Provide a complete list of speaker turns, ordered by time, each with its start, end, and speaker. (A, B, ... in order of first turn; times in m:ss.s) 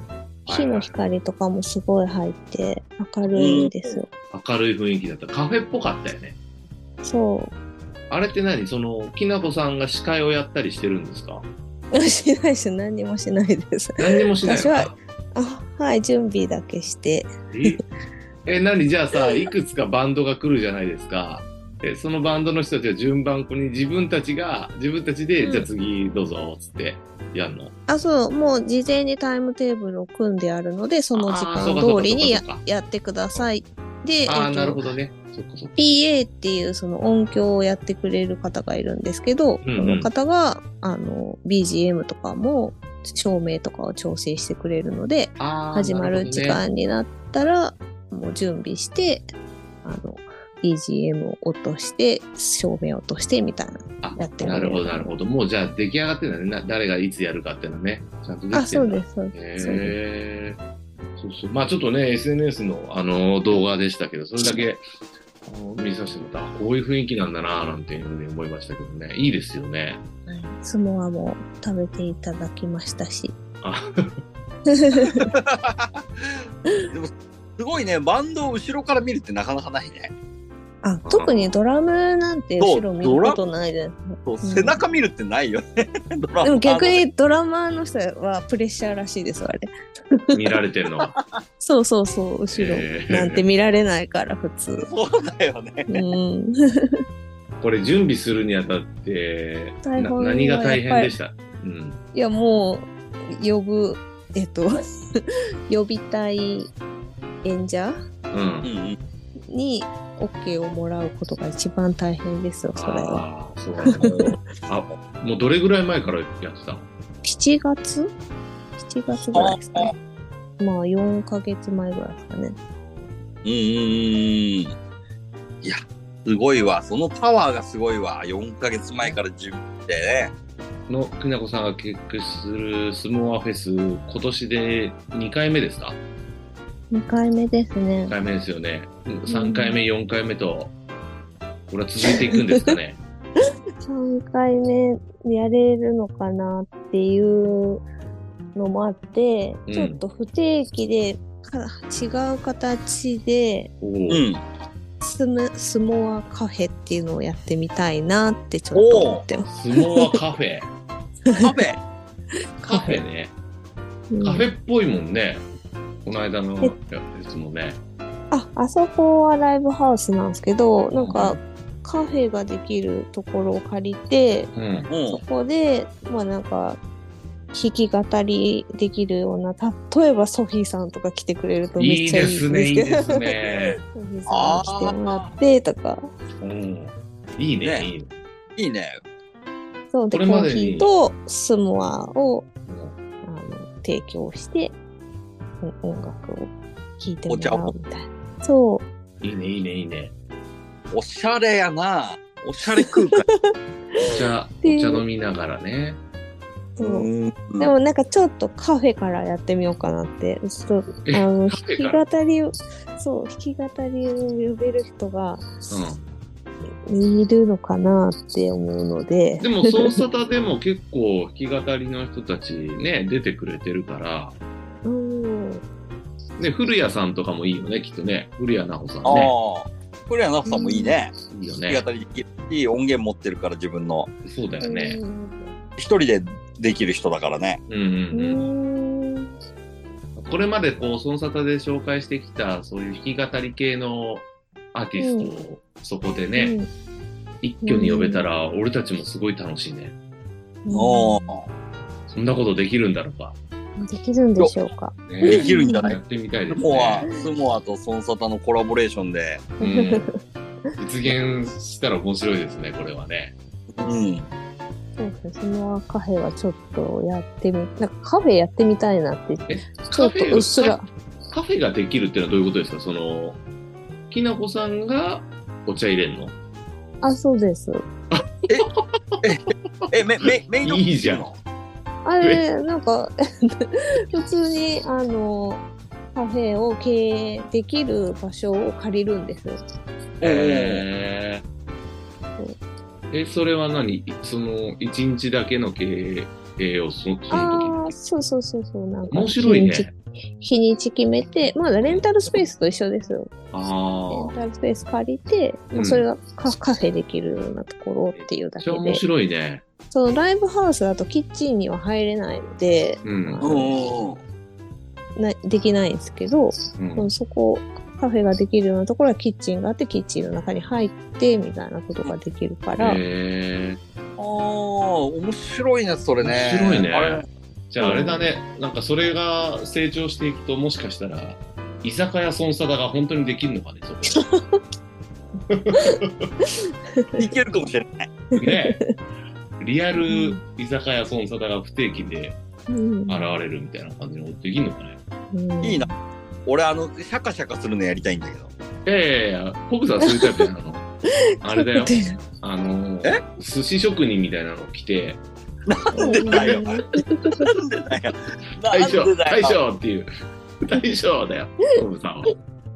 0:00.5-0:00.9 A
0:00.5-0:04.1 B
0:03.3-0:04.0 C
0:04.3-0:06.4 A
0:07.0-0:07.5 B
0:08.1-0:11.5 A
0:11.9-0:17.8 B
0:14.0-0:15.0 A
0:17.5-0:17.8 A
0:18.5-0:27.7 A
0:25.4-0:25.7 B
0:27.9-0:34.9 B
0:31.1-0:32.6 A
0:34.3-0:35.8 A
0:35.8-0:49.3 B
0:39.6-0:40.1 A
0:45.4-0:46.6 A
0:49.8-0:55.1 B
0:54.0-1:00.6 A
0:58.5-1:00.0 B
1:01.2-1:04.8 A
1:05.4-1:10.0 A
1:10.3-1:13.4 B
1:13.6-1:14.2 A
1:14.8-1:15.2 B
1:15.1-1:16.4 C
1:16.9-1:20.1 C
1:20.8-1:24.8 B
1:21.0-1:21.6 A
1:22.6-1:23.4 C
1:24.2-1:27.0 C
1:26.4-1:29.7 B
1:30.3-1:31.2 A
1:31.6-1:34.8 B
1:32.5-1:33.4 A
1:34.8-1:35.9 C
1:35.9-1:36.5 B
1:37.6-1:42.0 A
1:39.8-1:41.1 B
1:42.1-1:45.0 B
1:45.7-1:46.7 B
1:47.4-1:48.0 B
1:48.3-1:48.7 A
1:48.6-1:49.0 C
1:49.5-1:53.3 B
1:52.8-1:56.9 A
1:57.2-1:58.2 B
1:58.8-2:00.0 B
1:59.3-1:59.9 C
2:00.6-2:02.6 B
2:03.4-2:04.7 C
2:05.6-2:10.3 C
2:10.9-2:16.0 A
2:16.9-2:18.1 B
2:18.1-2:20.7 A
2:19.3-2:19.8 B
2:21.7-2:23.0 A
2:23.9-2:27.8 B
2:28.6-2:33.7 B
2:29.7-2:30.0 A
2:33.8-2:34.2 A
2:34.1-2:34.4 C
2:35.0-2:40.2 B
2:38.7-2:39.2 C
2:39.5-2:40.7 A
2:41.3-2:41.8 C
2:42.6-2:43.0 B
2:42.6-2:43.4 A
2:44.1-2:44.5 B
2:44.2-2:45.4 A
2:46.0-2:47.8 A
2:48.3-2:54.5 B
2:50.9-2:51.4 A
2:54.5-2:54.9 A
2:54.9-2:55.2 C
2:55.1-2:56.8 B
2:57.5-3:03.2 B
3:01.8-3:03.8 A
3:04.0-3:06.0 B
3:04.3-3:05.4 C
3:06.4-3:08.1 A
3:07.6-3:07.9 C
3:08.6-3:09.0 C
3:09.9-3:12.5 B
3:10.1-3:10.9 A
3:12.7-3:13.0 A
3:13.2-3:14.8 B
3:15.6-3:18.9 B
3:17.3-3:17.7 C
3:19.2-3:20.1 A
3:20.9-3:23.2 C
3:24.0-3:26.0 A
3:24.6-3:25.0 B
3:26.8-3:27.1 B
3:26.8-3:27.7 C
3:27.6-3:35.8 B
3:31.1-3:32.0 A
3:35.7-3:36.0 A
3:36.9-3:40.0 B
3:39.4-3:44.4 A
3:44.8-3:45.6 B
3:46.4-3:49.3 A
3:49.0-3:51.2 C
3:50.5-3:51.0 B
3:51.3-3:51.8 A
3:51.7-3:54.1 C
3:54.2-3:55.0 A
3:54.6-3:55.5 B
3:55.8-3:57.6 C
3:57.7-3:58.5 A
3:58.1-3:59.3 B
4:00.2-4:06.6 A
4:05.0-4:05.3 B
4:06.4-4:06.7 B
4:07.4-4:10.0 A
4:07.6-4:08.2 B
4:10.6-4:11.3 B
4:10.7-4:11.5 C
4:12.1-4:13.4 A
4:13.8-4:15.8 B
4:15.1-4:17.1 A
4:15.2-4:16.0 C
4:16.5-4:19.5 C
4:19.6-4:20.1 A
4:19.6-4:20.1 B
4:20.8-4:23.4 A
4:23.8-4:24.3 C
4:25.0-4:30.9 B
4:29.5-4:30.8 A
4:31.3-4:33.4 A
4:34.1-4:36.3 A
4:37.0-4:37.8 B
4:39.2-4:41.3 C
4:40.3-4:41.4 A
4:42.0-4:49.6 B
4:42.2-4:42.5 A
4:50.2-4:51.4 A
4:50.2-4:50.8 C
4:53.1-4:58.0 A
4:57.3-5:03.3 B
4:59.1-4:59.9 A
5:01.8-5:02.5 A
5:03.5-5:04.3 A
5:04.1-5:09.0 B
5:05.7-5:06.1 A
5:08.1-5:09.6 A
5:09.9-5:13.7 B
5:13.0-5:13.7 A
5:13.4-5:14.2 C
5:15.2-5:23.0 B
5:16.8-5:17.1 A
5:22.8-5:23.8 A
5:24.2-5:27.2 C
5:26.2-5:34.2 A
5:27.8-5:28.3 B
5:34.1-5:34.6 B
5:35.5-5:36.3 A
5:37.2-5:38.1 C
5:38.4-5:38.8 A
5:38.4-5:38.9 B
5:39.6-5:42.4 A
5:40.0-5:40.4 B
5:42.7-5:43.3 B
5:43.1-5:45.0 A
5:45.3-5:46.0 B
5:46.5-5:48.5 C
5:48.8-5:50.8 A
5:50.0-5:50.4 B
5:51.4-5:55.2 A
5:51.4-5:52.2 B
5:55.7-5:56.7 C
5:56.0-5:57.5 B
5:56.0-5:56.6 A
5:57.4-5:59.6 C
5:58.7-6:00.1 A
6:00.6-6:02.3 A